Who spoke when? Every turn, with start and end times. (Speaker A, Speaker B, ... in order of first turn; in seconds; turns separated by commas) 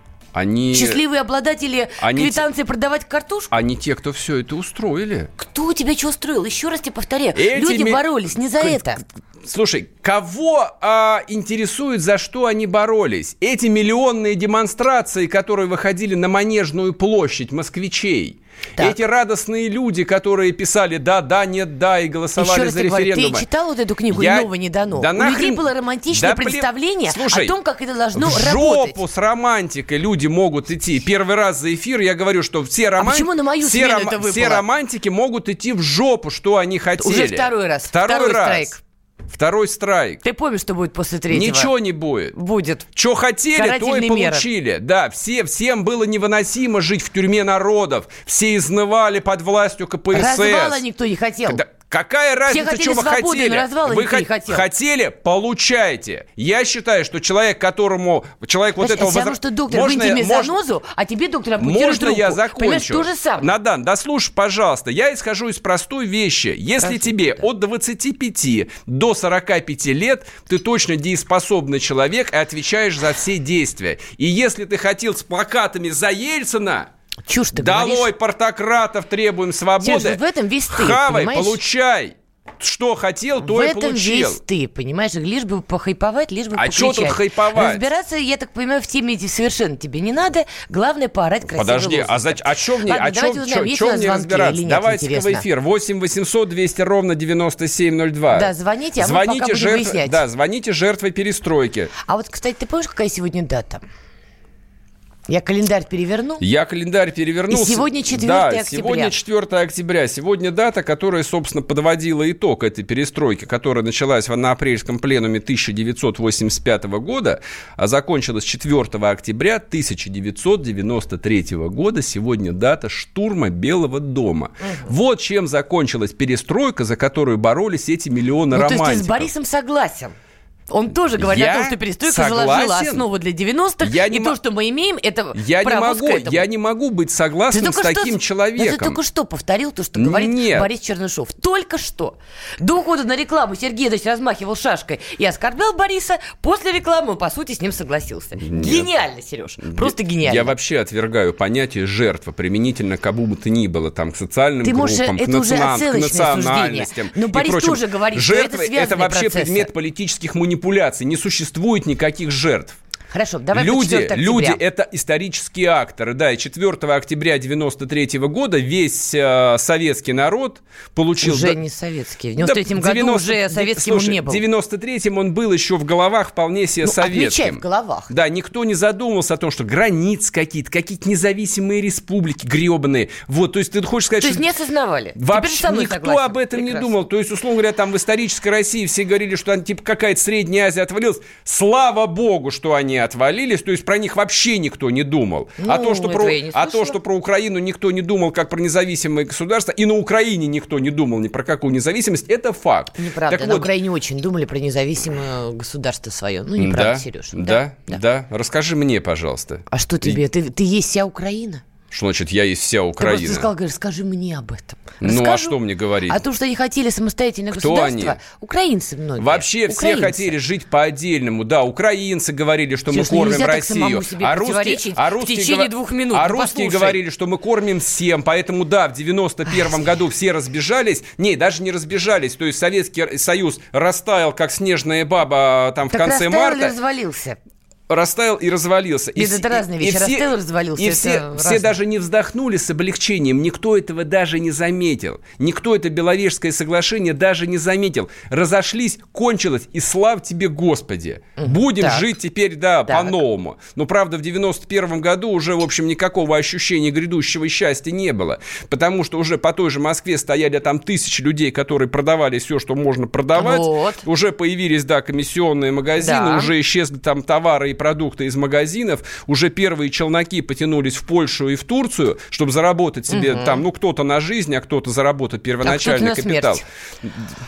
Speaker A: 0.3-1.0, Speaker B: 0.7-3.5, Speaker A: 2.0-2.4, Speaker A: 3.5-5.3, Speaker B: 5.4-9.0, Speaker A: 7.3-23.5, Speaker B: 22.4-29.0, Speaker A: 24.1-27.6, Speaker A: 28.1-38.8, Speaker B: 33.0-34.6, Speaker B: 37.0-38.8, Speaker A: 39.3-40.2, Speaker B: 40.2-41.7, Speaker A: 41.3-42.4, Speaker B: 42.4-42.9, Speaker A: 43.0-50.8, Speaker B: 43.6-44.5, Speaker B: 50.1-51.6, Speaker A: 51.5-60.6, Speaker B: 52.5-54.6, Speaker B: 58.8-63.5, Speaker A: 61.6-76.9, Speaker B: 66.8-67.1, Speaker B: 77.3-78.1, Speaker A: 77.5-84.4, Speaker B: 79.8-81.6, Speaker B: 83.4-95.5, Speaker A: 86.6-87.8, Speaker A: 91.5-101.9, Speaker B: 98.3-100.2, Speaker B: 102.1-103.8, Speaker B: 105.3-106.4, Speaker A: 106.4-129.3, Speaker B: 107.5-109.1, Speaker B: 124.6-124.9, Speaker B: 128.5-130.2, Speaker B: 130.7-136.4, Speaker A: 131.2-133.1, Speaker A: 133.8-134.4, Speaker A: 135.3-139.0, Speaker B: 137.5-150.5, Speaker A: 140.0-140.7, Speaker A: 148.4-148.9, Speaker A: 149.6-162.8, Speaker B: 154.6-159.7, Speaker B: 163.1-164.6, Speaker A: 163.5-171.6, Speaker B: 171.2-174.4, Speaker A: 172.4-184.5, Speaker B: 176.8-178.1, Speaker B: 184.2-186.9, Speaker A: 185.2-203.7, Speaker B: 195.6-197.0, Speaker B: 203.0-208.0, Speaker A: 206.6-210.2, Speaker B: 209.7-211.6, Speaker A: 211.9-213.5, Speaker B: 213.0-215.6, Speaker A: 215.0-216.2, Speaker B: 216.1-220.3, Speaker A: 217.5-218.2, Speaker A: 219.2-236.7, Speaker B: 222.9-227.0, Speaker B: 229.5-229.9, Speaker B: 235.9-237.4, Speaker A: 237.9-277.1, Speaker B: 239.2-241.8, Speaker B: 251.4-252.0, Speaker B: 252.9-253.2, Speaker B: 263.4-264.0, Speaker B: 266.0-266.5, Speaker B: 273.1-273.6, Speaker B: 275.6-276.6